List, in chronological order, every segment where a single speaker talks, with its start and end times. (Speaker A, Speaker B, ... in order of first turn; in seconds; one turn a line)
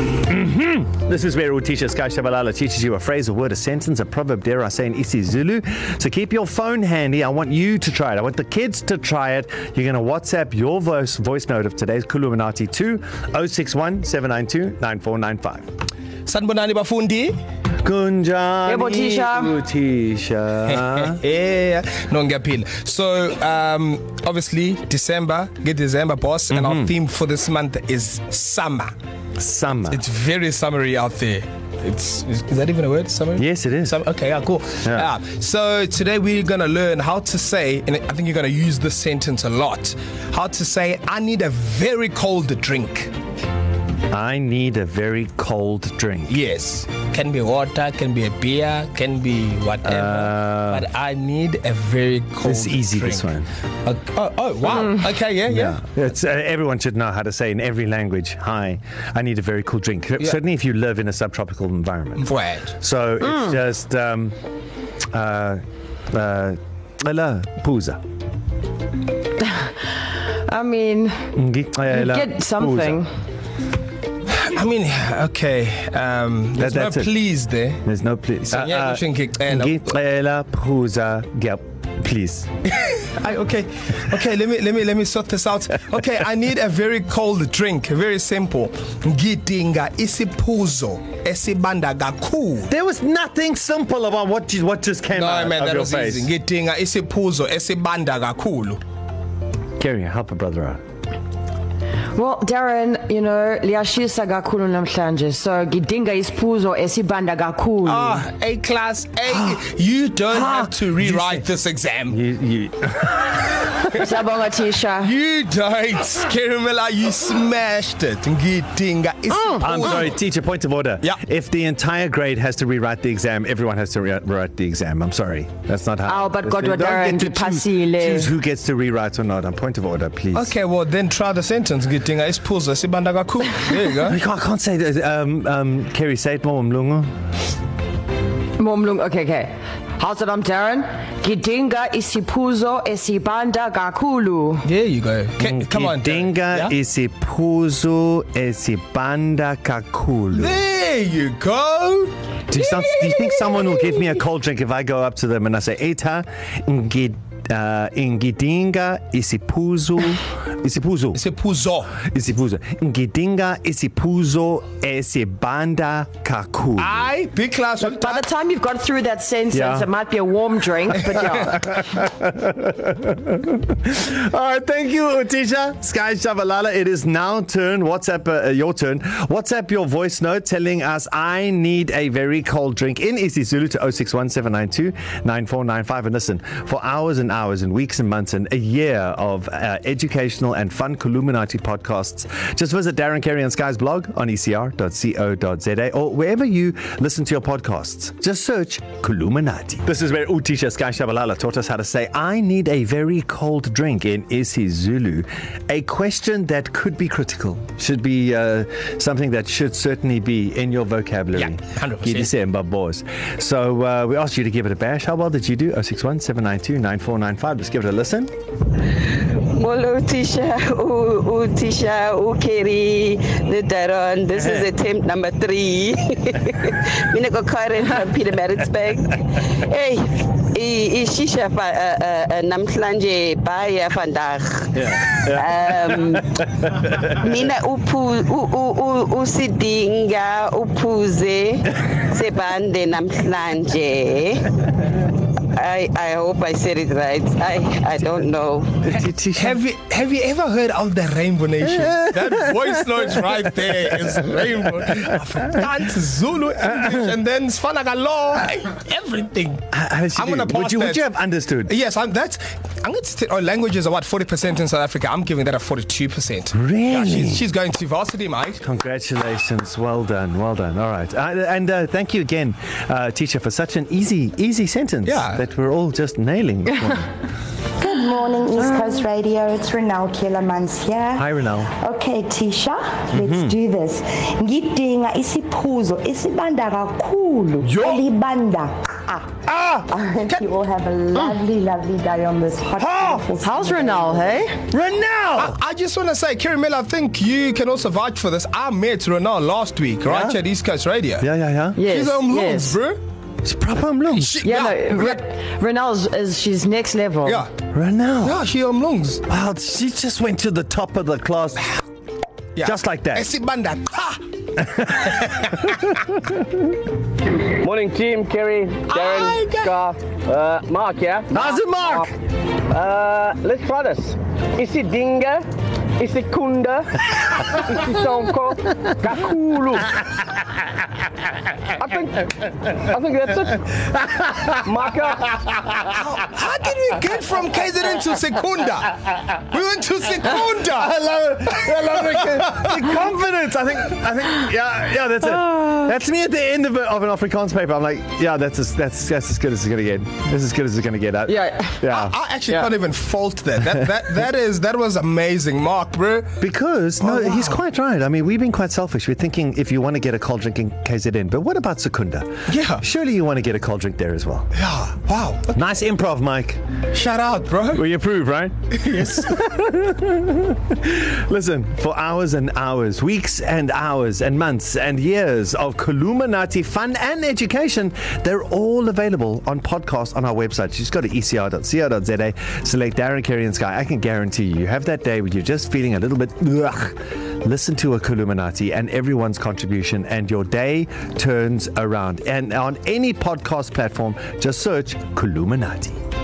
Speaker A: 0.2-15.7
Speaker B: 16.2-17.4
Speaker A: 17.8-21.2
Speaker C: 18.6-19.5
Speaker B: 20.7-28.9
Speaker A: 26.5-26.9
Speaker A: 29.4-30.0
Speaker B: 29.9-43.1
Speaker A: 33.4-34.0
Speaker A: 44.1-46.4
Speaker B: 46.3-53.3
Speaker A: 49.8-50.9
Speaker A: 52.4-53.5
Speaker B: 53.8-55.8
Speaker A: 55.5-64.3
Speaker B: 62.2-62.7
Speaker A: 65.1-68.0
Speaker C: 69.4-69.7
Speaker C: 70.5-71.3
Speaker A: 71.3-73.0
Speaker C: 71.9-73.1
Speaker B: 74.3-77.8
Speaker A: 76.6-77.1
Speaker A: 77.8-82.5
Speaker B: 78.5-79.9
Speaker B: 82.7-92.7
Speaker A: 92.7-96.3
Speaker B: 95.1-98.8
Speaker A: 99.8-100.8
Speaker C: 102.1-108.2
Speaker B: 107.8-112.2
Speaker A: 109.3-109.6
Speaker A: 110.3-111.4
Speaker A: 112.1-113.7
Speaker C: 113.9-115.1
Speaker B: 115.0-120.2
Speaker A: 119.6-130.5
Speaker C: 126.0-128.3
Speaker B: 130.3-134.2
Speaker A: 134.0-137.1
Speaker C: 138.6-144.7
Speaker B: 144.6-146.7
Speaker A: 145.4-150.6
Speaker B: 150.3-153.8
Speaker A: 152.5-161.2
Speaker B: 161.1-161.9
Speaker A: 161.9-167.0
Speaker B: 166.8-168.2
Speaker C: 167.8-171.6
Speaker A: 169.5-169.9
Speaker A: 171.3-218.3
Speaker B: 211.3-212.3
Speaker D: 218.8-236.5
Speaker A: 224.4-224.7
Speaker A: 234.8-237.2
Speaker D: 237.1-248.8
Speaker A: 248.8-249.6
Speaker B: 249.3-259.6
Speaker A: 251.8-254.5
Speaker A: 259.7-261.7
Speaker B: 260.1-261.0
Speaker B: 261.7-268.6
Speaker A: 266.5-267.4
Speaker A: 268.6-277.1
Speaker B: 275.1-275.4
Speaker E: 277.8-289.3
Speaker A: 281.1-281.7
Speaker A: 283.1-283.6
Speaker A: 287.6-288.0
Speaker A: 289.5-289.9
Speaker E: 289.9-294.4
Speaker A: 292.8-293.2
Speaker C: 293.4-294.6
Speaker A: 294.7-295.6
Speaker B: 295.4-301.2
Speaker A: 300.1-300.4
Speaker A: 301.2-301.8
Speaker C: 301.8-302.8
Speaker B: 301.9-303.0
Speaker A: 303.4-304.4
Speaker B: 304.2-305.2
Speaker C: 304.4-307.4
Speaker B: 307.2-307.5
Speaker A: 307.7-308.4
Speaker B: 308.2-309.2
Speaker A: 309.2-311.7
Speaker B: 312.6-314.4
Speaker A: 312.6-313.3
Speaker A: 314.6-316.7
Speaker B: 315.1-315.9
Speaker F: 317.6-322.1
Speaker B: 318.9-319.8
Speaker A: 321.3-322.1
Speaker F: 322.7-325.5
Speaker F: 326.0-330.0
Speaker F: 331.8-333.9
Speaker A: 334.1-334.5
Speaker F: 334.6-335.4
Speaker B: 335.9-340.9
Speaker A: 340.6-352.2
Speaker B: 341.5-342.8
Speaker C: 351.3-351.8
Speaker B: 351.9-356.4
Speaker A: 356.4-364.5
Speaker B: 357.0-357.6
Speaker B: 362.5-362.8
Speaker B: 364.6-365.6
Speaker A: 365.5-366.6
Speaker B: 366.9-367.9
Speaker A: 367.7-396.0
Speaker B: 368.8-369.3